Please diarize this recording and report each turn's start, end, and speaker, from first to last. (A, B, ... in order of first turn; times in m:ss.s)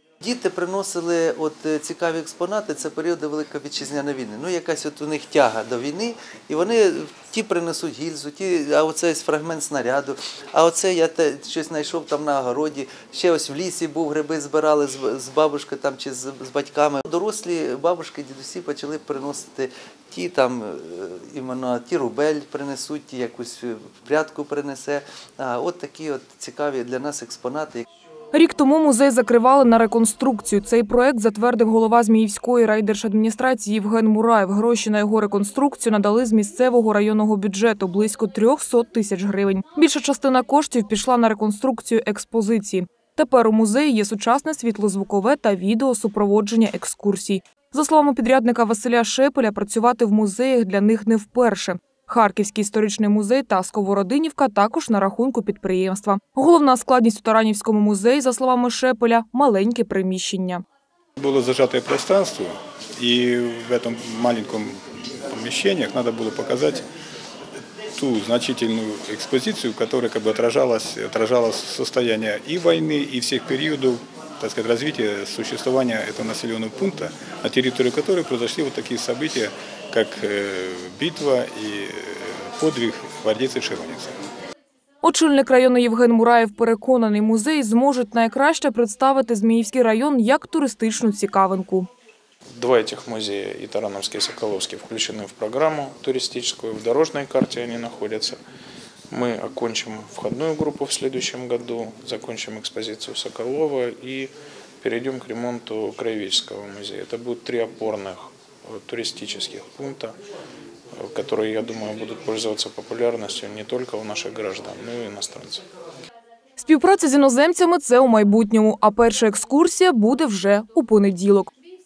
0:00.2-0:27.8 A
0:28.3-1:00.6 B
1:01.2-1:06.8 C
1:08.0-1:24.1 C
1:25.0-1:31.9 B
1:32.6-1:38.4 D
1:39.1-1:50.2 D
1:50.9-1:55.6 D
1:56.6-2:01.5 B